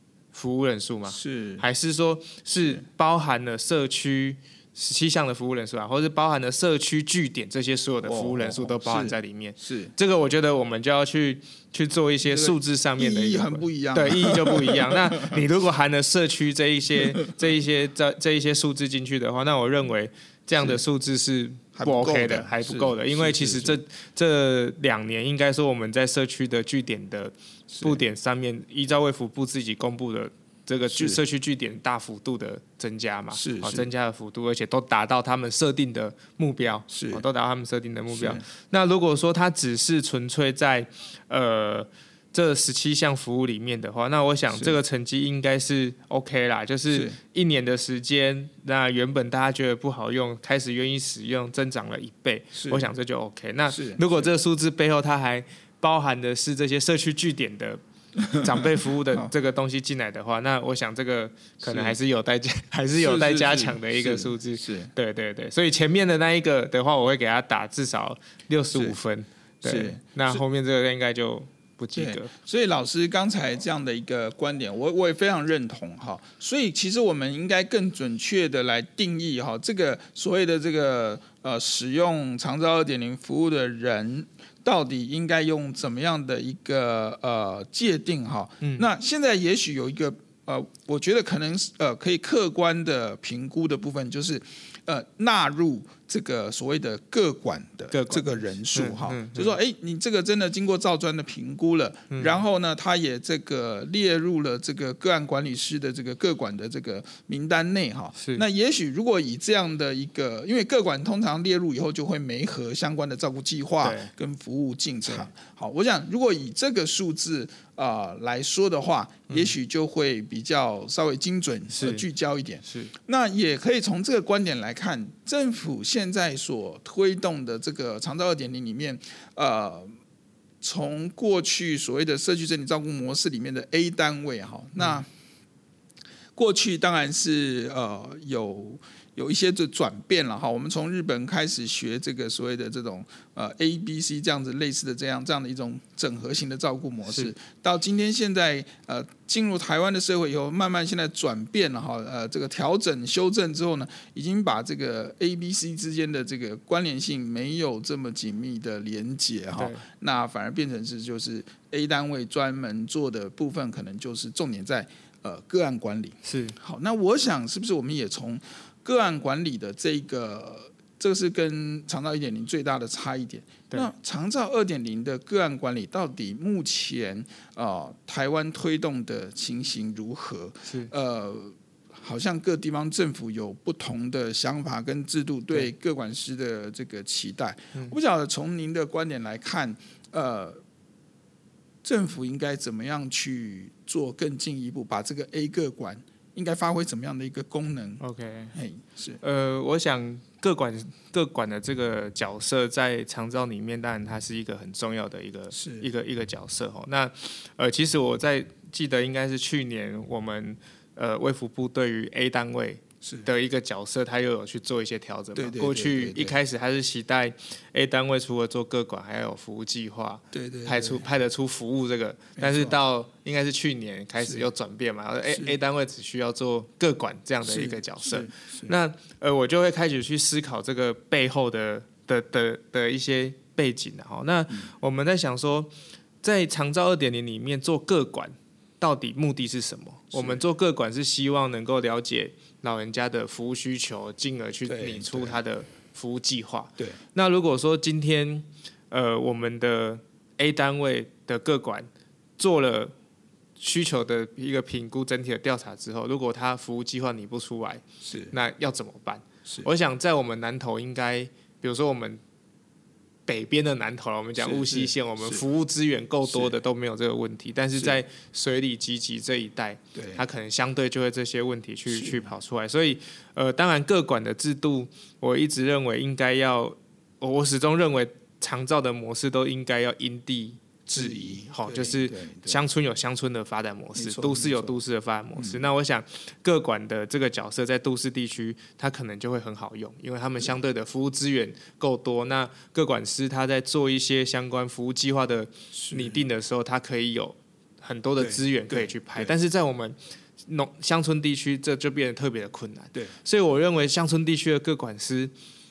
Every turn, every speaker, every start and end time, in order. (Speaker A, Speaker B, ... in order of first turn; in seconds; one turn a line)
Speaker A: 0.3-72.3
Speaker B: 1.1-1.6
Speaker B: 8.0-9.9
Speaker B: 12.2-15.4
Speaker B: 20.6-20.8
Speaker B: 21.7-23.8
Speaker B: 27.7-28.0
Speaker B: 30.9-31.2
Speaker B: 33.3-33.9
Speaker B: 36.9-37.2
Speaker B: 38.1-38.4
Speaker B: 44.5-44.8
Speaker B: 46.9-47.2
Speaker B: 52.5-52.9
Speaker B: 53.7-54.3
Speaker B: 61.6-62.0
Speaker B: 63.0-64.9
Speaker B: 69.6-70.4
Speaker B: 71.9-129.9
Speaker A: 88.6-88.8
Speaker A: 97.9-99.5
Speaker A: 102.1-102.4
Speaker A: 113.8-114.1
Speaker A: 121.7-122.0
Speaker A: 122.6-122.9
Speaker B: 130.6-135.1
Speaker B: 136.3-190.6
Speaker A: 147.1-147.3
Speaker A: 159.6-159.8
Speaker A: 166.2-166.6
Speaker A: 180.7-180.9
Speaker B: 191.8-198.0
Speaker A: 198.0-198.5
Speaker B: 198.5-199.2
Speaker A: 199.2-252.9
Speaker B: 205.5-205.9
Speaker B: 213.0-213.3
Speaker B: 215.3-216.3
Speaker B: 220.3-221.1
Speaker B: 222.4-222.8
Speaker B: 224.2-224.5
Speaker B: 225.2-225.6
Speaker B: 227.4-228.7
Speaker B: 240.1-240.4
Speaker B: 244.7-245.4
Speaker A: 253.6-262.2
Speaker B: 258.0-258.3
Speaker A: 263.3-305.3
Speaker B: 264.4-265.4
Speaker B: 266.2-266.5
Speaker B: 269.9-270.2
Speaker B: 271.9-272.3
Speaker B: 280.9-282.6
Speaker B: 283.9-284.8
Speaker B: 285.3-285.6
Speaker B: 295.7-296.2
Speaker B: 298.2-299.3